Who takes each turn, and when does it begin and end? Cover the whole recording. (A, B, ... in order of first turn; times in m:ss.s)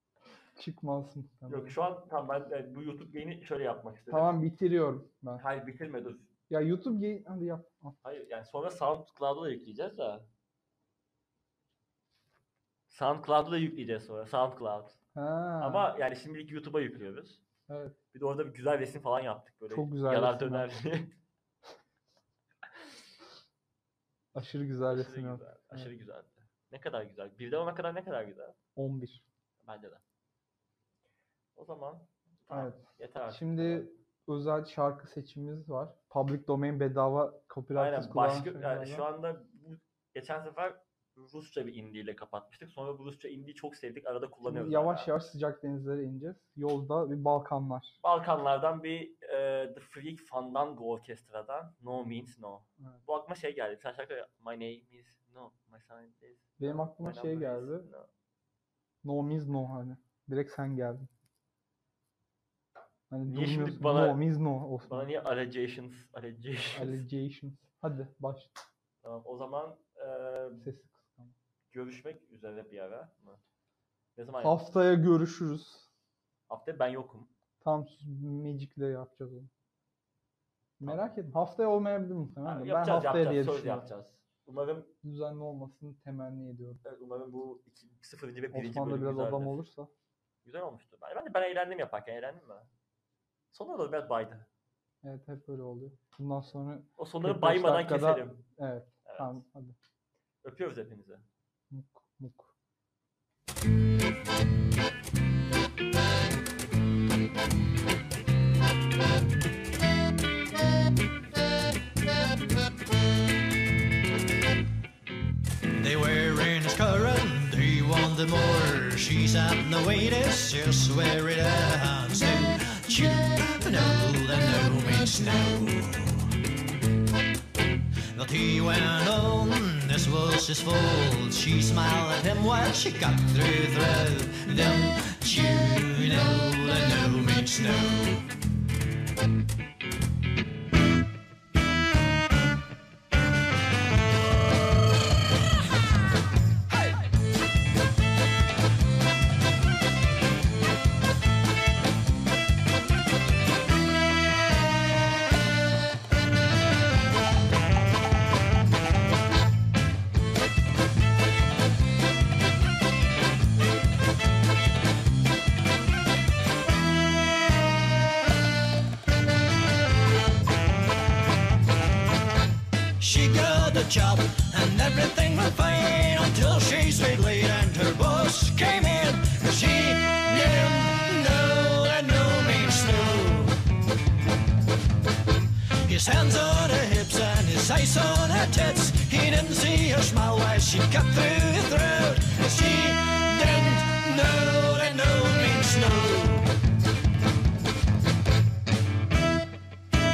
0:00.6-0:01.8 A
0:01.5-0:04.3 B
0:04.1-0:05.4 A
0:05.4-0:06.3 B
0:06.5-0:08.0 A
0:08.0-0:10.3 B
0:12.9-0:15.0 B
0:15.1-0:15.9 A
0:15.6-0:17.4 B
0:17.7-0:18.0 A
0:18.1-0:21.2 B
0:19.7-0:20.7 A
0:24.3-0:25.9 A
0:24.9-0:28.6 B
0:28.8-0:29.2 A
0:29.6-0:30.0 B
0:31.5-0:33.9 B
0:32.5-0:39.0 A
0:37.7-0:45.1 B
0:44.4-0:48.0 A
0:48.0-0:58.1 B
0:56.6-0:57.9 A
0:59.0-1:01.1 A
1:03.1-1:05.1 A
1:03.3-1:04.3 B
1:04.8-1:07.0 B
1:06.7-1:08.5 A
1:09.0-1:10.7 B
1:10.6-1:11.3 A
1:11.7-1:13.4 B
1:14.1-1:14.6 B
1:14.4-1:15.9 A
1:16.5-1:17.3 B
1:17.6-1:19.5 A
1:20.8-1:23.8 A
1:20.8-1:21.1 B
1:22.4-1:24.9 B
1:25.0-1:26.8 A
1:26.8-1:29.6 B
1:28.5-1:29.9 A
1:30.4-1:32.7 B
1:33.5-1:34.5 B
1:35.0-1:39.7 A
1:37.0-1:38.4 B
1:39.0-1:39.4 B
1:40.4-1:41.2 B
1:41.7-1:42.5 A
1:55.7-2:06.4 C
2:08.1-2:18.3 C
2:53.0-3:03.6 C
3:05.8-3:16.5 C